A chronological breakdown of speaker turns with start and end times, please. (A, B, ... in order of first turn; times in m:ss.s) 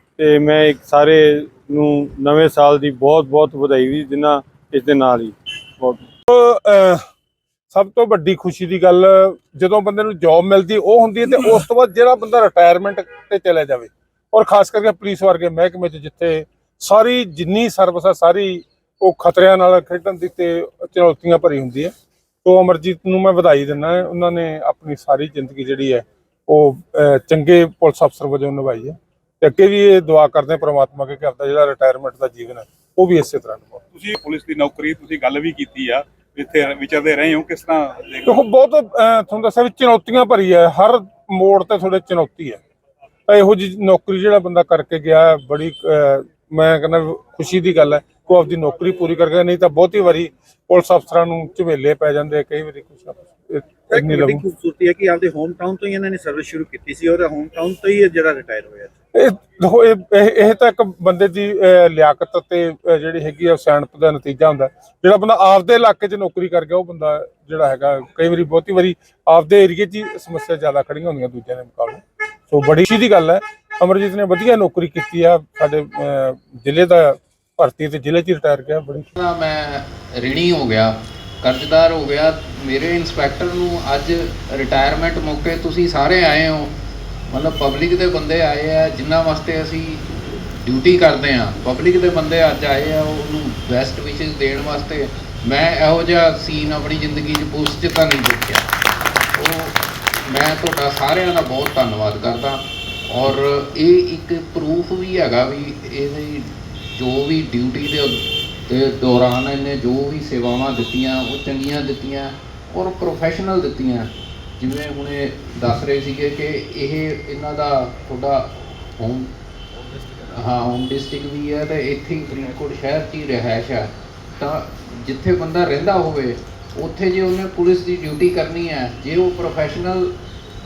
0:00.2-0:06.0 A
0:06.3-0:07.0 B
0:07.7-0:21.9 B
0:22.4-0:33.8 B
0:33.9-0:35.1 C
0:34.8-0:38.2 D
0:36.4-0:38.5 C
0:38.2-0:42.6 B
0:43.3-0:54.4 B
0:53.9-0:58.9 C
0:59.2-1:19.1 B
1:19.2-1:26.7 E
1:27.3-1:30.1 E
1:30.6-1:38.7 E
1:39.4-1:59.3 E
2:00.4-2:10.2 E